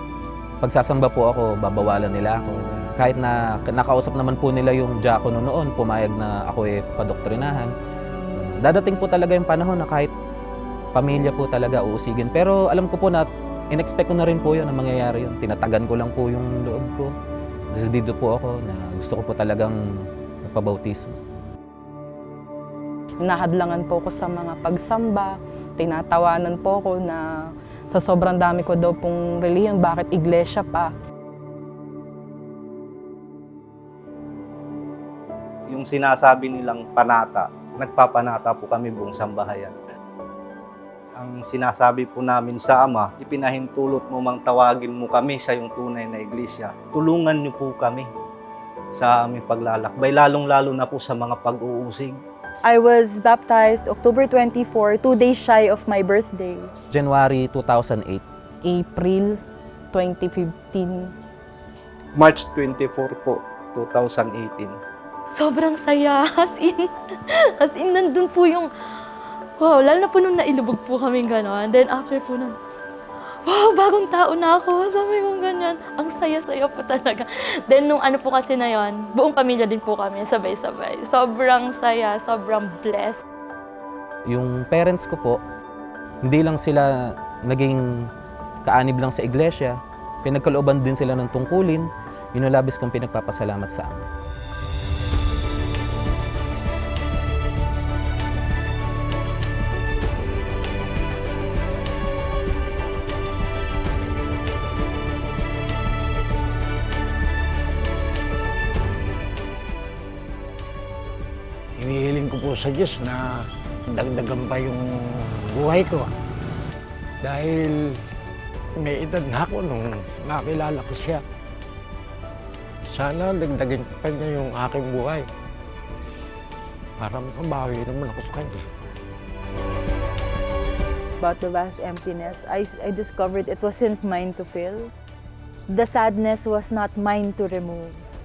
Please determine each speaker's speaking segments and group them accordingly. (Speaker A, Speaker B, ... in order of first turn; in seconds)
Speaker A: 0.6-7.7, 8.3-10.1, 10.9-17.1, 17.7-19.7, 20.4-21.1, 56.9-58.2, 84.3-85.4, 86.2-86.9, 87.5-88.1, 88.6-94.0
Speaker B: 23.2-30.9, 58.6-59.4, 59.9-61.1
Speaker C: 35.7-39.8, 41.2-48.1, 48.9-52.2, 62.1-64.8
Speaker D: 52.6-56.7, 131.2-134.9, 135.7-138.0
Speaker E: 65.3-68.7, 69.6-72.6, 73.5-83.2
Speaker F: 111.8-116.1, 117.2-117.9, 118.8-121.2, 122.9-125.2, 127.0-128.6